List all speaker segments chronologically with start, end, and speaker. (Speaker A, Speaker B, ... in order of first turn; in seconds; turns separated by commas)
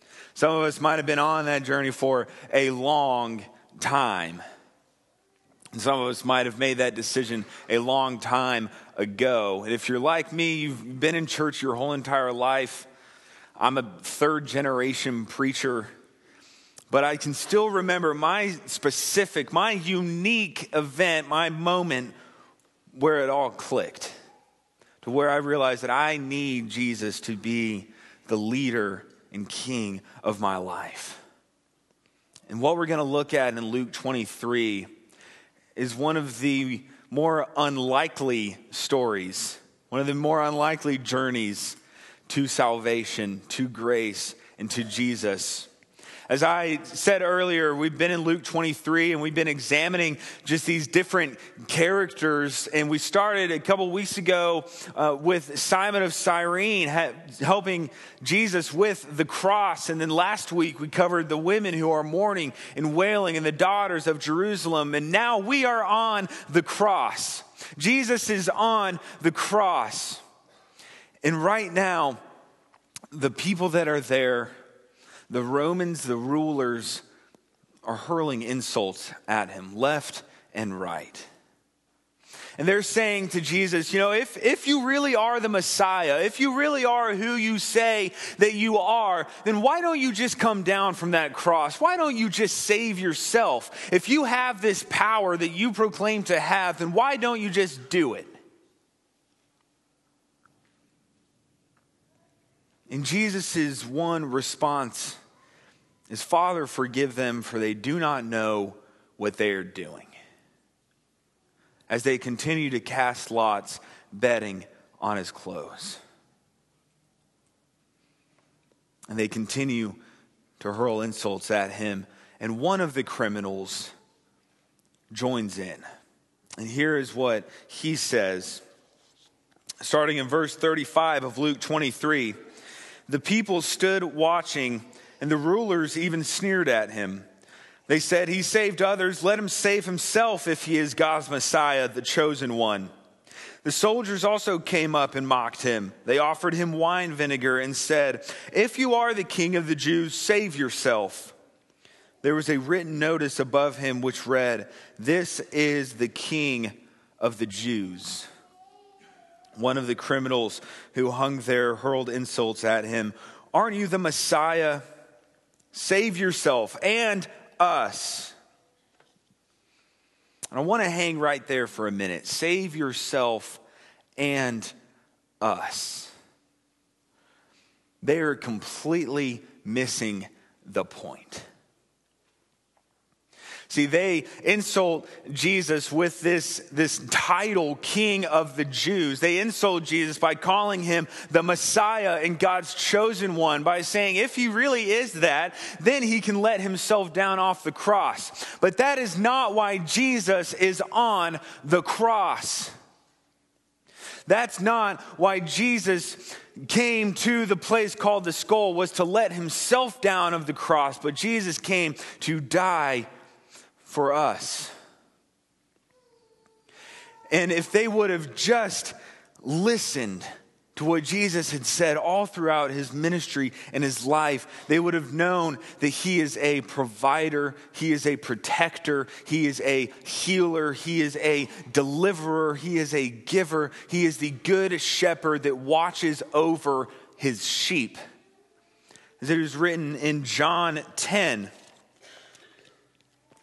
Speaker A: 0.3-4.4, Speaker A: 5.7-12.9, Speaker A: 13.6-15.9, Speaker A: 16.9-22.1, Speaker A: 22.9-24.1, Speaker A: 25.0-31.2, Speaker A: 32.5-34.9, Speaker A: 35.8-45.7, Speaker A: 46.3-70.2, Speaker A: 71.2-72.2, Speaker A: 73.1-74.5, Speaker A: 75.3-77.0, Speaker A: 77.8-81.3, Speaker A: 82.6-98.3, Speaker A: 102.9-105.2, Speaker A: 106.1-110.1, Speaker A: 111.9-116.0, Speaker A: 119.1-120.0, Speaker A: 120.6-123.9, Speaker A: 125.1-125.8, Speaker A: 126.6-128.6, Speaker A: 129.8-132.3, Speaker A: 133.1-137.2, Speaker A: 137.9-142.9, Speaker A: 143.6-151.3, Speaker A: 152.2-158.3, Speaker A: 159.6-164.8, Speaker A: 165.7-168.3, Speaker A: 170.5-173.6, Speaker A: 174.2-174.7, Speaker A: 175.4-176.1, Speaker A: 178.0-181.4, Speaker A: 183.7-202.7, Speaker A: 204.2-213.1, Speaker A: 213.8-214.7, Speaker A: 217.3-238.0, Speaker A: 239.2-241.5